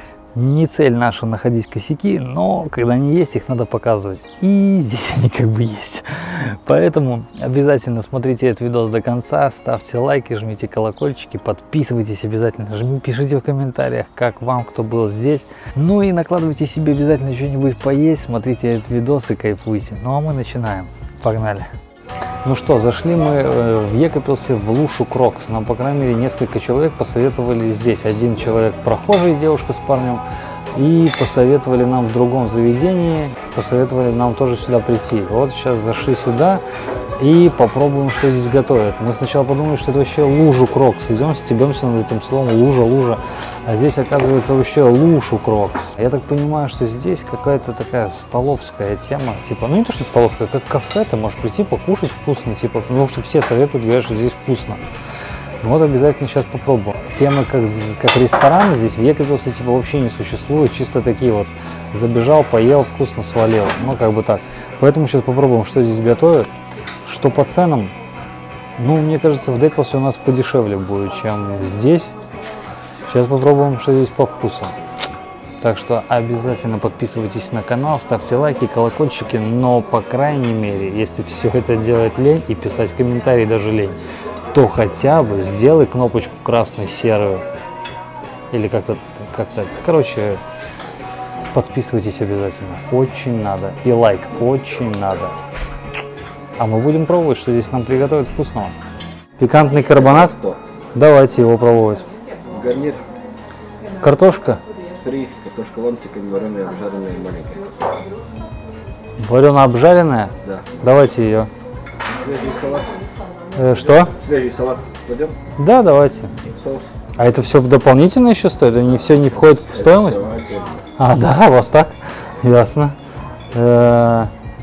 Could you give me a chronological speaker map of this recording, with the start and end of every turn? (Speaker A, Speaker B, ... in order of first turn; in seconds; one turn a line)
Speaker A: 0.3-21.7
Speaker A: 22.4-36.6
Speaker A: 37.2-54.8
Speaker A: 55.6-66.5
Speaker A: 67.0-67.9
Speaker A: 68.8-72.2
Speaker A: 73.1-74.8
Speaker A: 75.6-84.0
Speaker A: 84.5-87.5
Speaker A: 88.5-90.4
Speaker A: 91.5-95.4
Speaker A: 96.6-98.8
Speaker A: 99.4-100.4
Speaker B: 99.9-100.6
Speaker A: 101.0-102.1
Speaker B: 102.5-103.0
Speaker A: 104.0-104.6
Speaker B: 105.0-107.7
Speaker A: 109.2-111.5
Speaker B: 110.4-110.8
Speaker B: 112.2-112.9
Speaker A: 113.5-114.2
Speaker B: 114.0-115.4
Speaker A: 115.6-116.4
Speaker B: 116.4-116.9
Speaker A: 117.2-120.2
Speaker B: 119.5-120.8
Speaker A: 121.0-123.0
Speaker A: 123.5-124.3